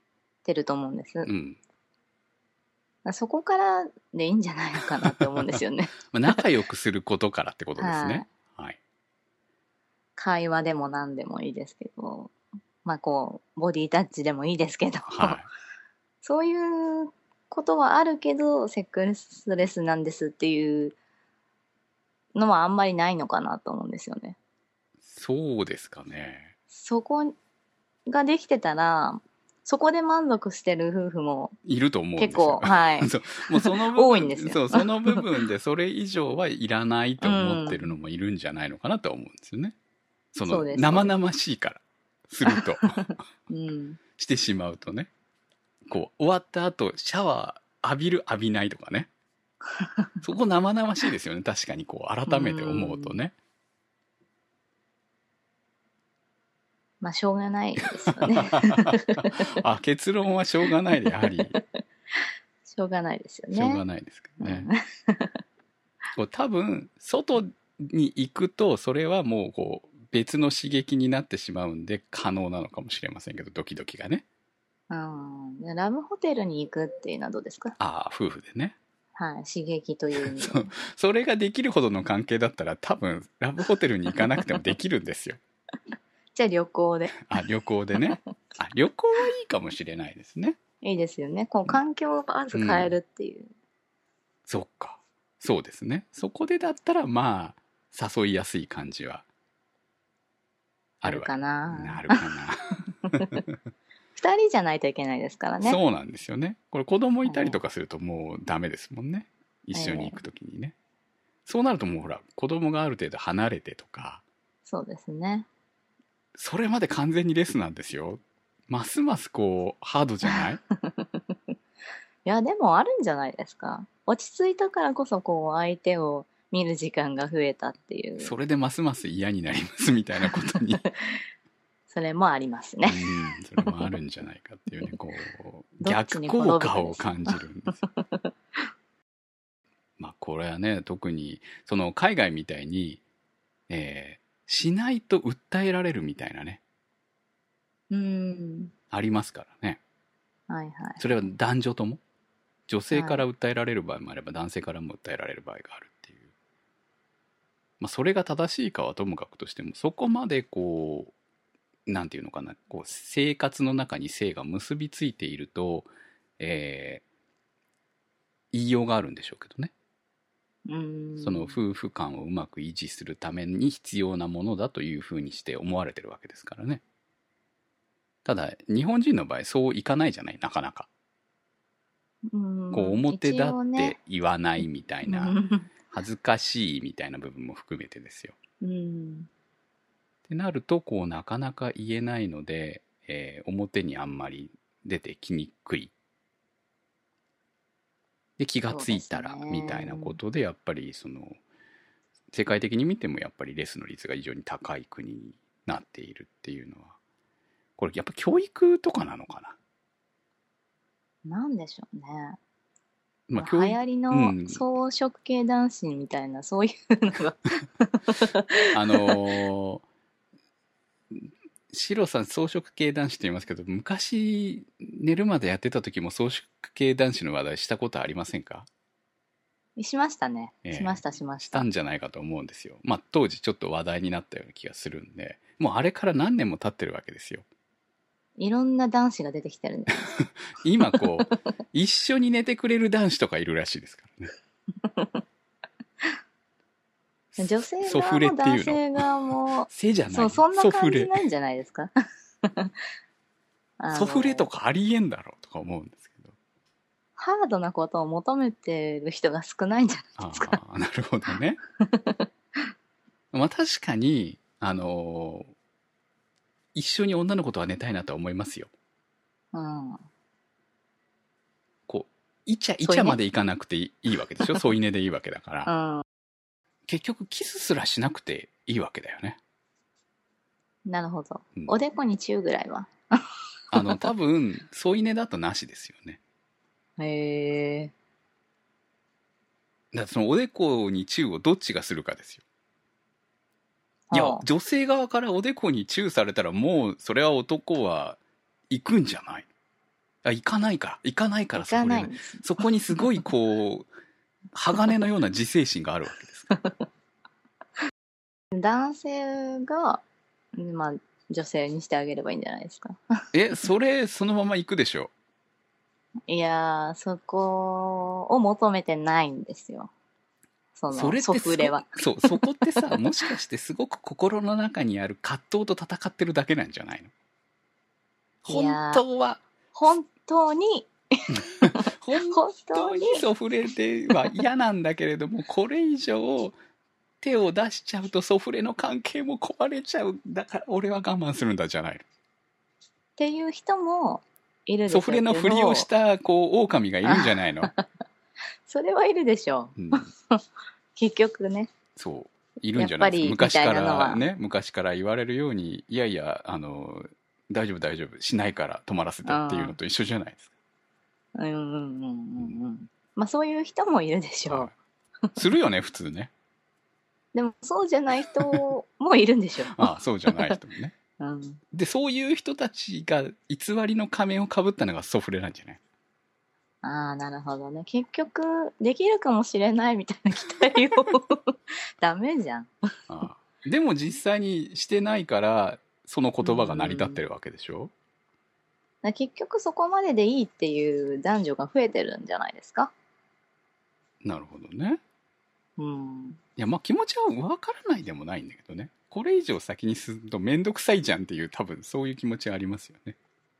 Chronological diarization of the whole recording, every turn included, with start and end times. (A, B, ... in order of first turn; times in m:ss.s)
0:00.4-0:01.3 A
0:01.2-0:01.6 B
0:03.0-0:06.4 A
0:05.0-0:05.6 B
0:06.1-0:08.8 B
0:07.8-0:08.3 A
0:10.2-0:12.3 A
0:12.8-0:15.4 A
0:15.1-0:15.4 B
0:16.2-0:21.0 A
0:22.3-0:24.4 A
0:25.0-0:26.5 B
0:26.7-0:27.3 A
0:28.1-0:31.6 A
0:31.6-0:39.7 B
0:32.2-0:35.3 A
0:37.2-0:37.9 A
0:40.3-0:43.0 B
0:40.4-0:41.1 A
0:42.5-0:44.0 A
0:44.2-0:45.1 B
0:45.9-0:49.1 B
0:49.8-0:50.1 A
0:50.2-0:53.3 B
0:52.3-0:53.2 A
0:57.0-0:59.5 A
0:58.1-1:01.6 B
1:01.2-1:01.6 A
1:02.7-1:03.8 A
1:03.5-1:04.7 B
1:04.4-1:05.3 A
1:06.2-1:14.2 B
1:14.9-1:17.8 A
1:17.8-1:18.8 B
1:19.2-1:20.7 A
1:20.1-1:25.4 B
1:26.3-1:27.3 A
1:27.2-1:30.6 B
1:30.8-1:33.5 A
1:32.5-1:33.0 B
1:34.5-1:39.2 B
1:41.0-1:43.5 B
1:41.0-1:42.2 A
1:44.2-1:45.8 A
1:45.6-1:50.7 B
1:47.2-1:47.6 A
1:49.7-1:50.2 A
1:51.4-1:54.2 B
1:54.6-1:55.5 A
1:56.4-2:00.6 B
2:00.2-2:01.3 A
2:02.2-2:08.3 A
2:08.2-2:10.8 B
2:11.9-2:13.9 A
2:12.8-2:17.8 B
2:15.8-2:17.4 A
2:20.0-2:23.0 B
2:23.7-2:26.6 B
2:27.9-2:28.7 A
2:28.9-2:29.8 B
2:30.5-2:31.0 A
2:31.0-2:32.0 B
2:32.7-2:36.2 B
2:32.9-2:33.2 A
2:37.8-2:41.1 B
2:41.9-2:47.0 B
2:48.5-2:49.7 B
2:50.6-2:51.6 A
2:51.2-2:56.8 B
2:58.2-3:00.9 B
3:02.3-3:04.0 A
3:02.7-3:05.4 B
3:05.0-3:05.7 A
3:05.9-3:08.4 B
3:08.6-3:09.3 A
3:10.3-3:15.9 B
3:18.4-3:21.4 B
3:18.7-3:20.2 A
3:22.3-3:26.9 B
3:27.8-3:29.6 B
3:31.2-3:32.4 A
3:33.3-3:34.6 B
3:33.4-3:39.2 A
3:38.7-3:39.8 B
3:41.1-3:48.7 B
3:49.8-3:51.7 A
3:50.6-3:57.4 B
3:58.4-4:00.1 A
4:00.1-4:04.3 B
4:04.8-4:05.2 A
4:07.3-4:09.1 B
4:07.4-4:11.9 A
4:09.7-4:11.2 B
4:12.4-4:12.7 A
4:13.8-4:14.5 A
4:13.9-4:16.3 B
4:17.2-4:20.6 A
4:20.2-4:21.6 B
4:21.8-4:22.3 A
4:23.3-4:25.5 B
4:26.7-4:28.7 B
4:29.5-4:30.0 A
4:31.9-4:35.7 B
4:32.8-4:33.2 A
4:35.6-4:36.0 A
4:36.9-4:39.4 B
4:40.8-4:42.9 A
4:43.7-4:46.2 B
4:47.0-4:47.9 A
4:49.9-4:52.4 B
4:54.1-4:54.4 A
4:54.1-4:58.2 B
4:58.7-4:59.5 B
5:00.2-5:03.9 B
5:01.5-5:02.4 A
5:04.5-5:06.5 B
5:08.5-5:10.0 A
5:10.6-5:13.2 A
5:13.3-5:15.1 B
5:16.3-5:19.9 A
5:20.8-5:23.0 A
5:20.9-5:27.1 B
5:28.4-5:29.4 B
5:28.5-5:29.0 A
5:29.7-5:33.2 A
5:31.6-5:36.5 B
5:37.2-5:42.0 B
5:43.2-5:45.9 A
5:44.9-5:47.7 B
5:47.0-5:47.8 A
5:48.6-5:50.4 A
5:49.8-5:50.1 B
5:51.0-5:51.7 A
5:52.0-6:00.5 B
5:52.7-5:54.2 A
5:59.2-5:59.8 A
6:01.3-6:04.7 A
6:04.5-6:04.7 B
6:05.3-6:06.3 B
6:07.3-6:10.6 A
6:08.3-6:08.6 B
6:09.7-6:10.9 B
6:11.2-6:11.6 A
6:11.7-6:15.8 B
6:16.8-6:22.7 A
6:23.1-6:27.9 B
6:26.4-6:27.2 A
6:29.0-6:32.9 A
6:34.2-6:35.0 B
6:35.8-6:36.4 A
6:36.6-6:43.2 B